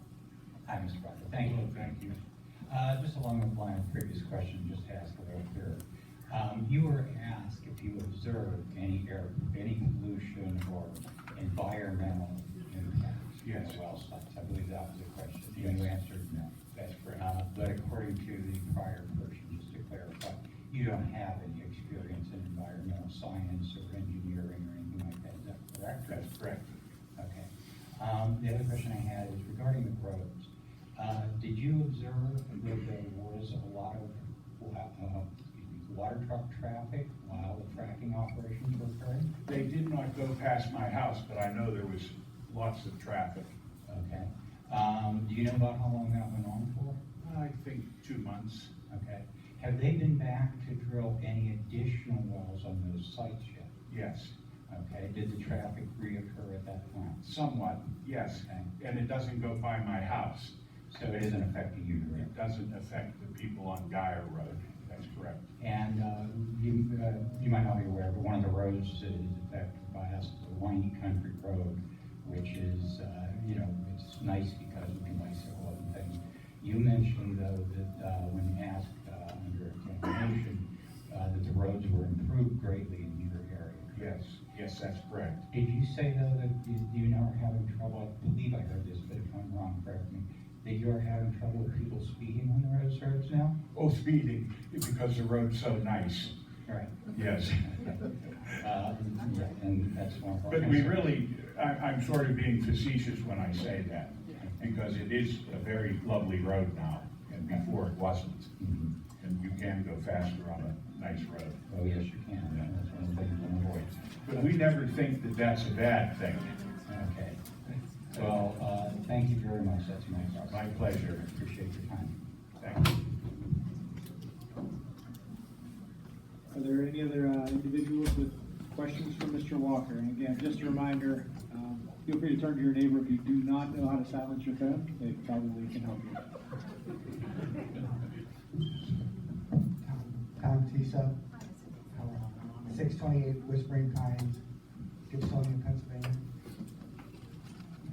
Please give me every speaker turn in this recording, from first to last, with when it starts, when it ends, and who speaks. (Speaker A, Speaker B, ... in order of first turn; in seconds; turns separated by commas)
Speaker A: 0.7-1.7, Speaker B: 1.4-2.1, Speaker A: 2.7-16.6, Speaker B: 13.4-13.8, Speaker B: 15.5-15.9, Speaker B: 16.7-17.2, Speaker A: 17.1-26.3, Speaker B: 26.1-26.7, Speaker A: 27.2-39.3, Speaker B: 39.5-43.5, Speaker A: 43.9-47.0, Speaker B: 47.2-48.7, Speaker A: 48.9-53.7, Speaker B: 53.9-54.3, Speaker A: 54.7-57.2, Speaker B: 57.2-60.5, Speaker A: 58.5-58.7, Speaker A: 60.9-62.3, Speaker B: 62.1-65.5, Speaker A: 65.6-84.2, Speaker B: 83.9-85.5, Speaker A: 85.5-93.6, Speaker B: 93.7-96.3, Speaker A: 96.7-97.1, Speaker B: 97.1-97.9, Speaker A: 97.6-98.1, Speaker A: 98.6-101.2, Speaker B: 100.5-108.5, Speaker A: 108.6-108.9, Speaker B: 109.2-111.6, Speaker A: 111.7-114.0, Speaker B: 114.3-116.6, Speaker A: 116.9-117.4, Speaker A: 118.1-122.2, Speaker B: 120.5-121.2, Speaker B: 122.6-123.0, Speaker C: 126.5-136.3, Speaker D: 139.8-141.2, Speaker D: 141.9-144.4, Speaker D: 145.1-146.2